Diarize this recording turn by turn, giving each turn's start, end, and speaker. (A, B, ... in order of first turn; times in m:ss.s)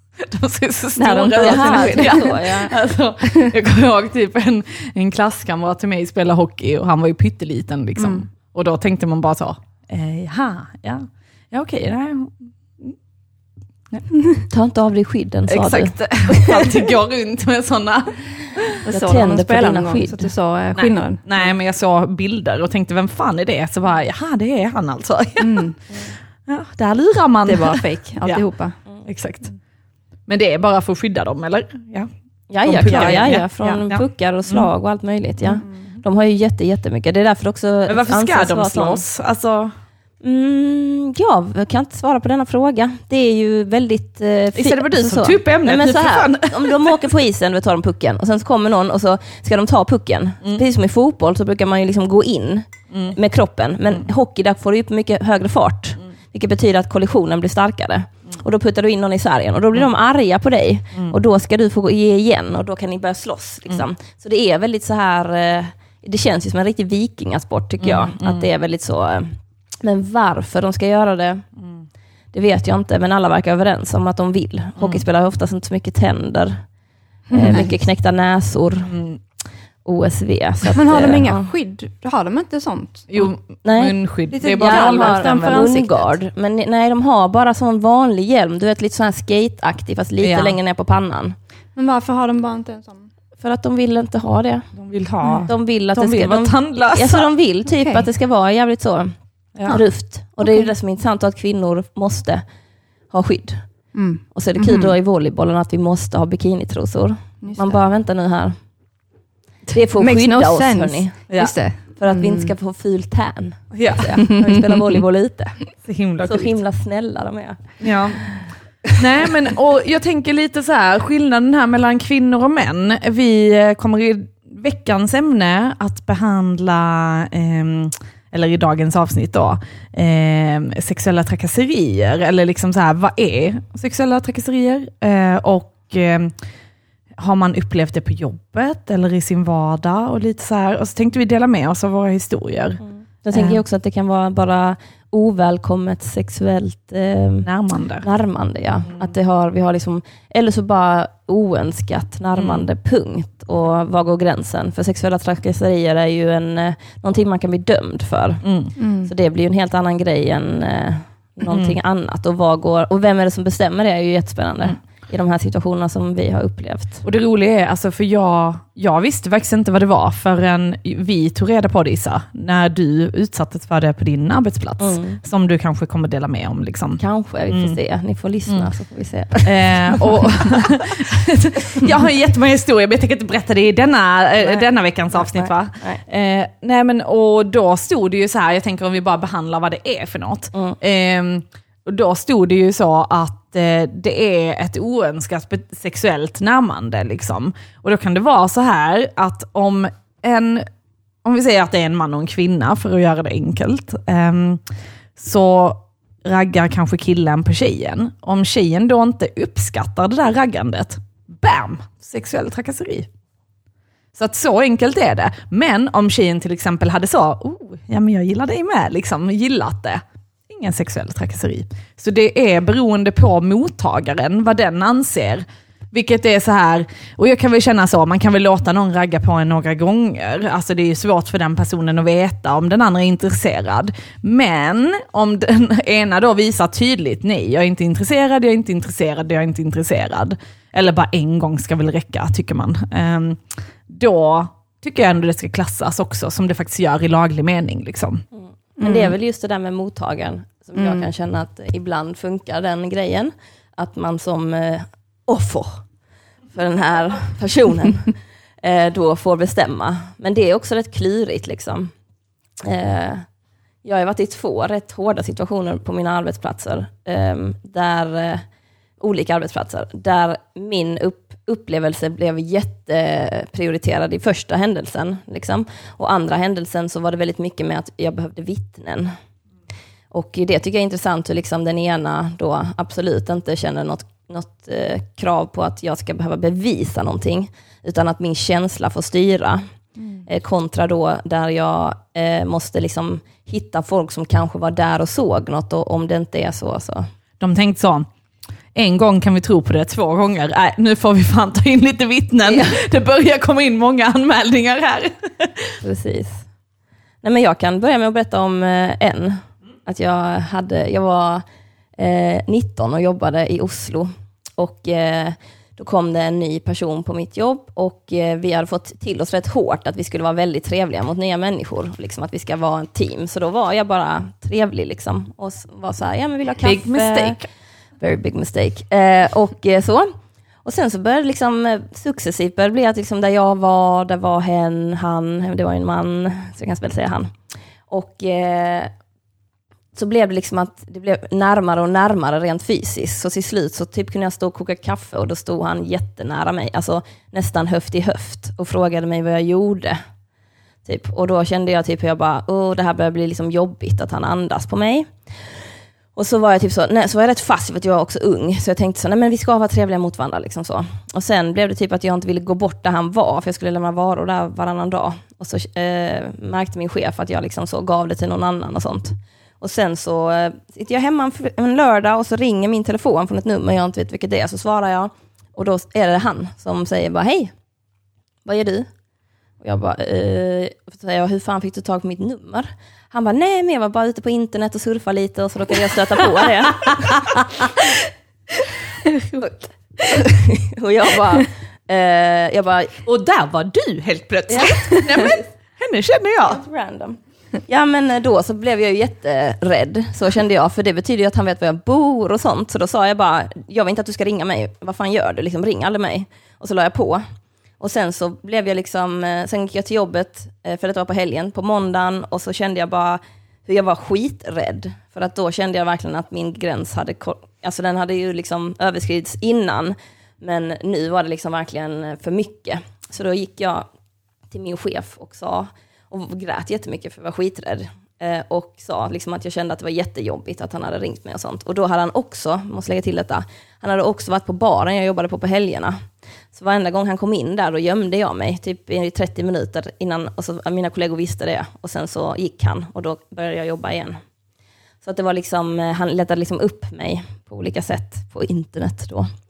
0:00.2-0:13.0 A
0:01.0-0:02.4 B
0:01.3-0:02.7 C
0:08.0-0:08.2 B
0:14.5-0:16.6 C
0:15.5-0:18.8 A
0:18.8-0:21.2 B
0:18.9-0:20.3 C
0:20.8-0:25.8 A
0:25.4-0:25.8 B
0:26.4-0:28.4 A
0:27.4-0:28.8 B
0:29.0-0:29.5 A
0:30.3-0:32.1 A
0:32.5-0:39.0 C
0:32.6-0:34.7 A
0:32.8-0:33.8 B
0:37.9-0:39.7 A
0:40.2-1:11.4 C
0:44.6-0:47.1 A
0:52.9-0:53.2 A
1:07.8-1:08.5 A
1:11.6-1:11.9 A
1:12.3-1:16.6 C
1:14.8-1:15.0 A
1:17.3-1:17.7 B
1:17.3-1:18.9 C
1:18.8-1:19.2 A
1:19.8-1:21.5 C
1:20.7-1:23.1 B
1:23.1-1:25.6 A
1:23.6-1:31.4 C
1:24.3-1:26.1 B
1:30.2-1:30.6 A
1:31.7-1:33.1 B
1:33.4-1:34.7 C
1:34.8-1:37.3 A
1:35.2-1:35.5 B
1:35.4-1:39.1 C
1:37.7-1:38.0 B
1:39.5-1:39.8 A
1:39.6-1:42.4 C
1:40.4-1:40.7 A
1:43.1-1:43.7 C
1:43.9-1:44.9 B
1:44.3-1:48.6 C
1:47.4-1:47.8 B
1:49.7-1:51.2 C
1:50.0-1:52.5 B
1:52.0-1:55.6 C
1:53.7-1:54.3 A
1:54.2-1:54.8 B
1:55.8-1:56.5 A
1:56.2-1:58.4 C
1:57.8-1:58.4 A
1:58.9-2:16.3 A
2:17.2-2:23.6 A
2:22.8-2:27.5 C
2:27.4-2:28.0 A
2:28.0-2:38.4 C
2:32.3-2:32.6 A
2:38.4-2:38.7 A
2:38.8-2:39.1 B
2:39.0-2:47.0 C
2:41.5-2:41.8 A
2:47.0-2:57.8 A
2:54.8-2:55.2 C
2:57.0-3:00.1 C
2:59.4-3:20.6 A
3:04.4-3:06.0 C
3:21.2-3:24.6 A
3:25.2-3:33.1 A
3:34.1-4:08.2 A
4:08.3-4:15.8 C
4:08.8-4:09.1 B
4:10.8-4:11.1 B
4:16.5-4:21.9 C
4:22.6-4:23.3 C
4:23.8-4:28.4 C
4:29.0-4:39.1 C
4:40.1-4:49.6 C
4:50.0-4:50.2 B
4:50.2-4:57.1 C
4:57.4-4:58.1 A
4:58.7-5:05.8 A
5:02.4-5:02.8 C
5:05.8-5:06.4 C
5:07.2-5:11.4 C
5:12.0-5:27.4 C
5:26.6-5:27.4 A
5:28.0-5:30.1 C
5:30.6-5:37.3 C
5:37.9-5:38.9 C
5:39.9-5:50.0 C
5:50.8-5:55.1 C
5:56.2-6:17.5 C
6:18.4-6:18.9 C
6:19.6-6:27.4 C
6:29.4-6:33.0 C
6:33.0-6:36.6 A
6:34.5-6:35.4 C
6:36.4-6:47.2 C
6:47.8-7:03.9 C
7:04.5-7:24.2 C
7:25.0-7:29.3 C